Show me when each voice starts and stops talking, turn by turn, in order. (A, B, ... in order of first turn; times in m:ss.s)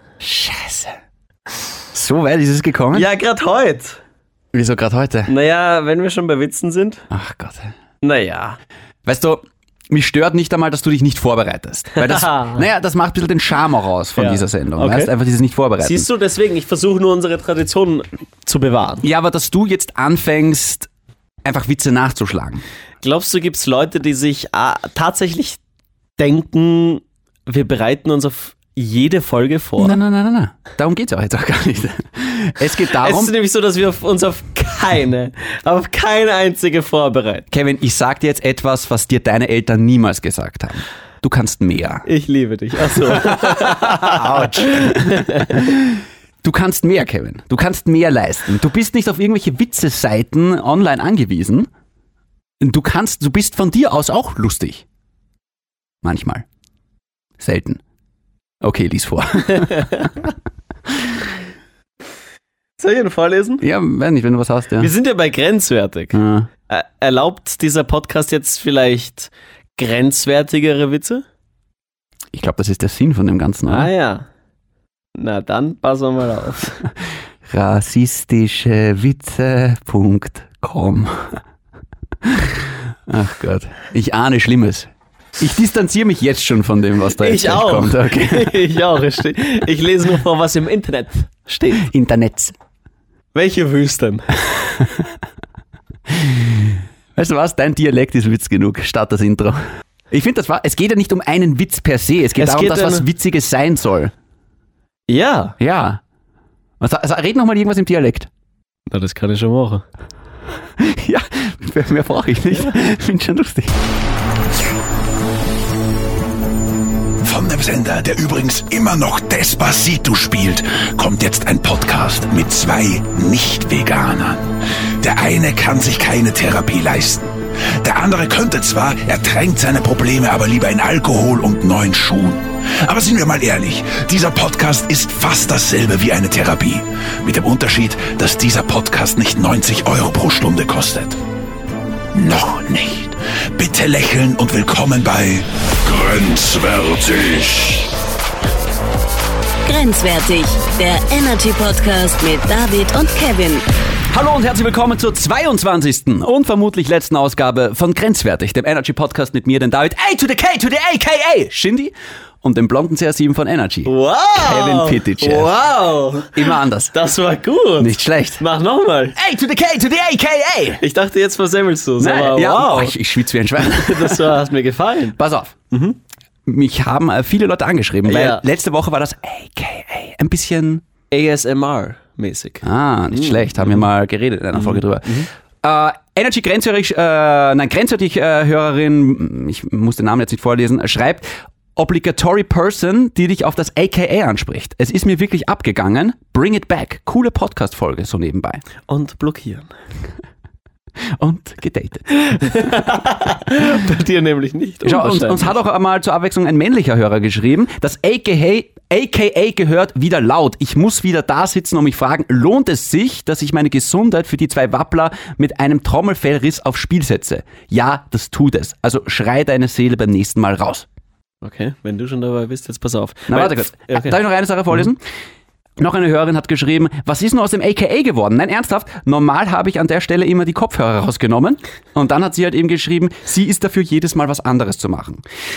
0:00.2-0:01.0 A
0:01.9-0:03.1 A
0:02.9-0:04.0 B
0:04.5-0:05.3 A
0:05.3-0:07.1 B
0:07.1-0:07.7 A
0:08.0-0:08.6 B
0:09.1-0:16.0 A
0:12.0-0:12.6 B
0:14.2-0:15.1 B
0:15.8-0:19.0 B
0:19.0-0:20.9 A
0:21.4-0:22.6 A
0:23.0-0:25.6 B
0:26.2-0:30.0 B
0:29.8-0:33.3 A
0:32.9-0:37.5 B
0:37.5-0:42.1 A
0:42.0-0:45.6 B
0:42.9-0:51.7 A
0:52.6-0:54.8 A
0:56.0-0:56.4 A
0:57.4-0:57.8 A
0:58.6-1:00.1 A
0:59.6-1:00.1 B
1:02.8-1:03.6 B
1:03.6-1:04.9 A
1:04.8-1:11.3 B
1:06.1-1:06.5 A
1:12.3-1:13.9 A
1:13.7-1:14.3 B
1:15.2-1:16.8 B
1:17.5-1:21.4 A
1:22.2-1:28.6 A
1:27.2-1:31.9 B
1:31.7-1:32.6 A
1:33.3-1:34.3 B
1:36.1-1:44.1 A
1:42.4-1:43.0 B
1:45.1-1:45.6 B
1:45.6-1:46.0 A
1:46.8-1:48.3 A
1:48.9-1:49.8 B
1:50.8-1:53.8 A
1:57.2-2:21.2 C
2:22.1-2:28.0 C
2:29.6-2:33.6 D
2:34.1-2:45.5 A
2:43.9-2:49.2 B
2:46.3-2:47.0 A
2:47.8-2:48.5 A
2:49.2-2:50.8 A
2:50.8-2:53.0 B
2:52.0-2:54.4 A
2:53.6-2:55.2 B
2:55.2-2:55.6 A
2:55.7-2:56.0 B
2:56.5-3:00.8 A
2:58.0-2:58.4 B
3:01.1-3:03.8 B
3:02.6-3:18.6 A
3:04.6-3:05.3 B
3:18.9-3:19.7 B
3:21.2-3:22.4 A
3:22.2-3:25.5 B
3:24.8-3:40.9 A
3:41.4-3:44.2 B
3:43.3-3:45.0 A
3:45.8-3:55.2 A